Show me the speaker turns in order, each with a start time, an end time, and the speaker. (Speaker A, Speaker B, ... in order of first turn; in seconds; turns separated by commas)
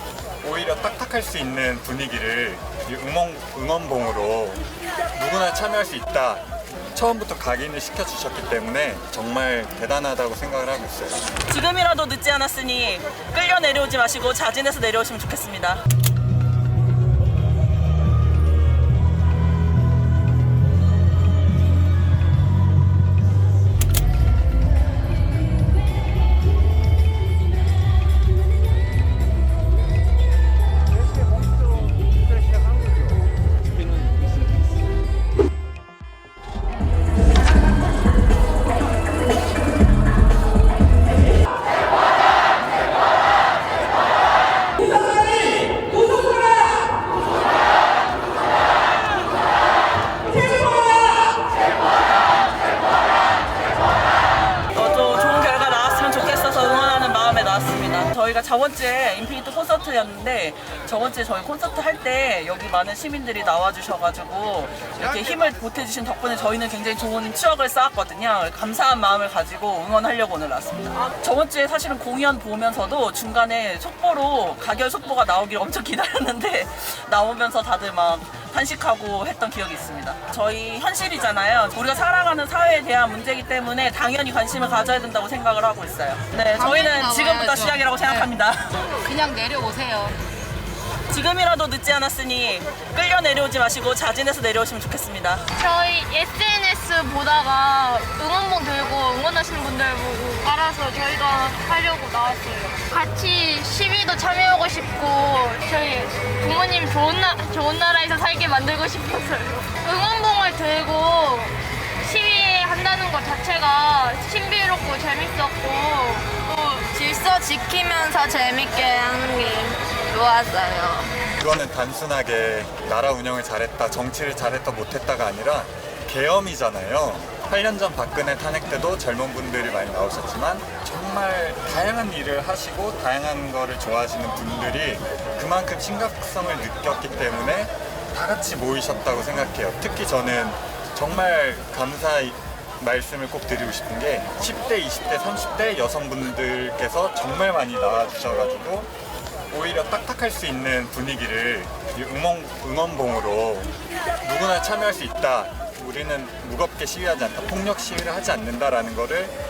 Speaker A: 0.4-4.6, Speaker A: 5.1-11.3, Speaker B: 11.5-15.8, Speaker B: 54.7-88.8, Speaker C: 86.5-88.3, Speaker C: 88.9-90.1, Speaker B: 91.1-95.5, Speaker D: 95.5-117.0, Speaker E: 117.0-121.1, Speaker A: 121.4-148.9, Speaker A: 149.5-159.3